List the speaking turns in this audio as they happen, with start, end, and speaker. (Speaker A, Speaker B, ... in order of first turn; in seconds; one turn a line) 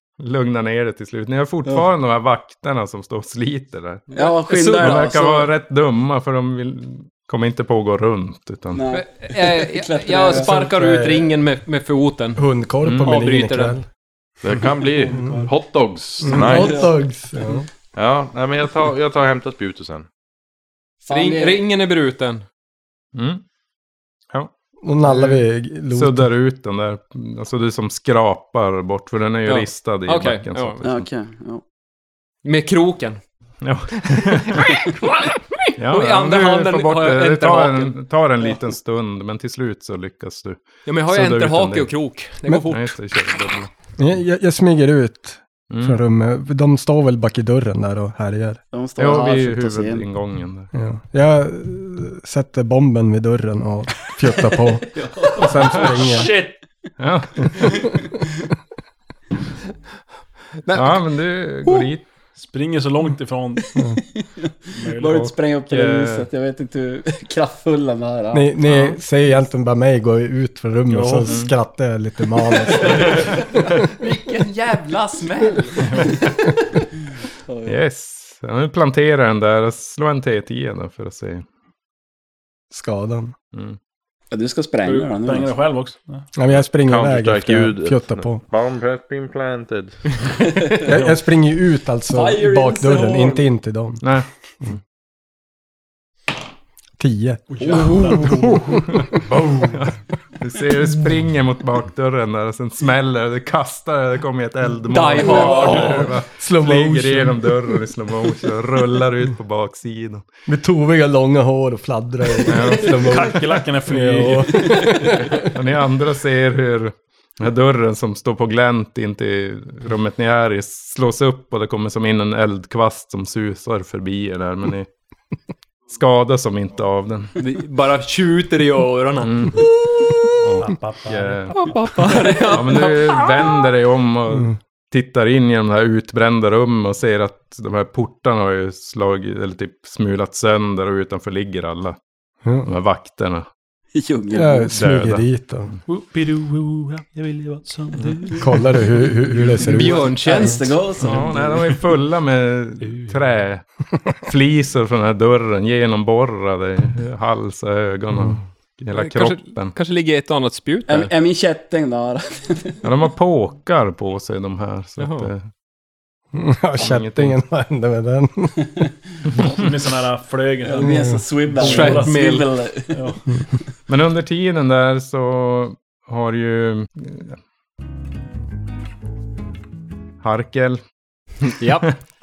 Speaker A: 0.2-4.1
Speaker B: 4.1-5.5
Speaker C: 4.2-5.1
Speaker A: 4.8-8.8
Speaker B: 8.7-10.7
Speaker C: 8.9-12.4
Speaker D: 10.3-11.3
Speaker D: 12.3-13.8
Speaker A: 12.8-13.2
Speaker C: 13.0-13.8
Speaker E: 14.4-16.9
Speaker D: 15.1-15.5
Speaker D: 16.2-17.6
Speaker B: 16.4-16.9
Speaker E: 17.9-20.1
Speaker B: 21.0-21.6
Speaker C: 21.1-22.4
Speaker A: 23.1-23.4
Speaker D: 24.8-26.3
Speaker A: 25.0-31.1
Speaker C: 29.4-30.8
Speaker B: 30.8-31.6
Speaker C: 32.4-33.2
Speaker A: 33.6-34.8
Speaker C: 34.0-37.9
Speaker A: 35.8-41.9
Speaker C: 40.9-43.0
Speaker A: 42.7-43.7
Speaker D: 44.0-48.6
Speaker A: 45.7-46.0
Speaker B: 48.7-50.0
Speaker A: 49.0-50.7
Speaker D: 50.7-56.4
Speaker F: 55.4-56.6
Speaker A: 57.0-58.0
Speaker C: 60.6-61.0
Speaker A: 60.7-62.0
Speaker F: 62.4-63.8
Speaker B: 64.2-68.7
Speaker F: 64.8-65.2
Speaker A: 65.0-66.3
Speaker D: 68.3-73.7
Speaker F: 70.9-71.4
Speaker A: 71.2-71.5
Speaker C: 72.9-76.3
Speaker A: 75.8-76.2
Speaker B: 77.5-77.8
Speaker A: 77.7-81.4
Speaker D: 82.7-83.3
Speaker B: 84.3-85.5
Speaker F: 84.8-86.3
Speaker D: 86.3-88.4
Speaker E: 86.8-90.0
Speaker D: 90.8-94.0
Speaker F: 90.9-91.2
Speaker B: 92.1-93.5
Speaker A: 94.0-94.8
Speaker D: 97.0-99.0
Speaker F: 97.5-99.8
Speaker B: 97.7-98.1
Speaker A: 98.7-110.2
Speaker C: 104.9-106.1
Speaker B: 105.2-105.8
Speaker D: 105.6-107.8
Speaker D: 110.5-115.5
Speaker A: 112.4-113.3
Speaker F: 112.7-115.1
Speaker A: 115.3-124.9
Speaker A: 125.9-127.3
Speaker C: 127.4-130.4
Speaker A: 129.2-129.7
Speaker A: 130.4-131.7
Speaker F: 130.6-132.0
Speaker C: 131.5-133.7
Speaker A: 132.4-142.0
Speaker D: 142.4-142.7
Speaker A: 142.6-143.5
Speaker B: 143.9-144.8
Speaker D: 144.3-145.7
Speaker A: 144.7-145.2
Speaker F: 145.8-149.6
Speaker D: 148.4-150.6
Speaker C: 149.6-150.8
Speaker B: 149.9-151.8
Speaker A: 151.0-159.7
Speaker F: 152.8-153.1
Speaker C: 158.9-161.1
Speaker B: 160.9-162.8
Speaker A: 162.8-165.4
Speaker C: 165.0-165.3
Speaker D: 166.3-168.7
Speaker A: 166.8-167.3
Speaker A: 169.3-169.7
Speaker F: 169.4-172.2
Speaker B: 170.6-173.1
Speaker D: 170.8-171.2
Speaker C: 171.6-172.4
Speaker F: 172.9-173.2
Speaker A: 173.9-177.3
Speaker A: 180.2-180.8
Speaker C: 181.6-181.9